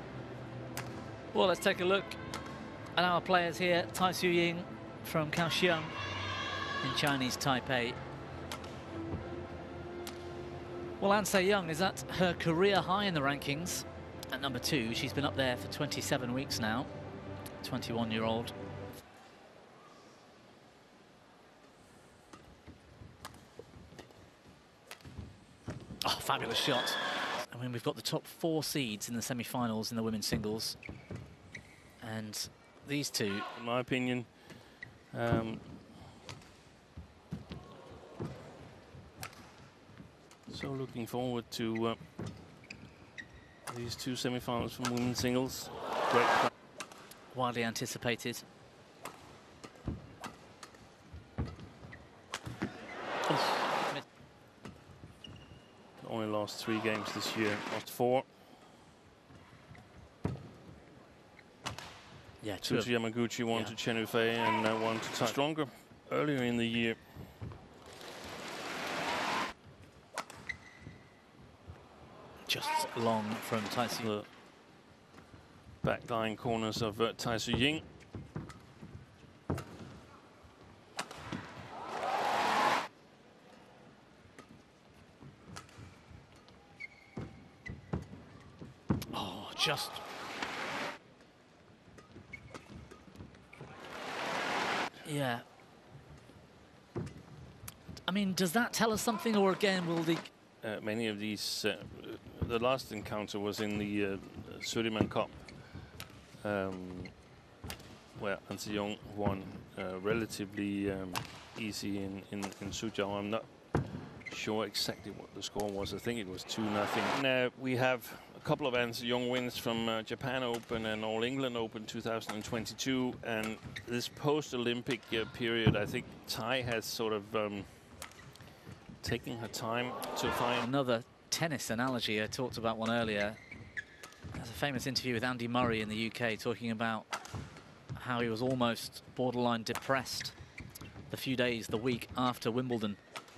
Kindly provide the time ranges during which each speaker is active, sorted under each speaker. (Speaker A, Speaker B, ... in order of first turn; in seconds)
Speaker A: 1.3-2.2, 2.9-5.9, 6.8-8.0, 11.0-16.9, 17.6-18.5, 26.0-30.8, 32.0-33.5, 47.3-48.4, 53.3-54.0, 62.4-63.8, 72.4-74.1, 89.1-90.0, 95.0-95.4, 98.0-100.3, 130.6-133.4, 134.3-137.1, 137.9-140.3, 141.1-143.0
Speaker B: 33.5-35.7, 40.5-42.0, 43.7-46.5, 56.0-58.3, 62.6-67.3, 74.0-74.3, 75.8-77.8, 100.6-107.2, 108.2-127.8, 129.0-130.7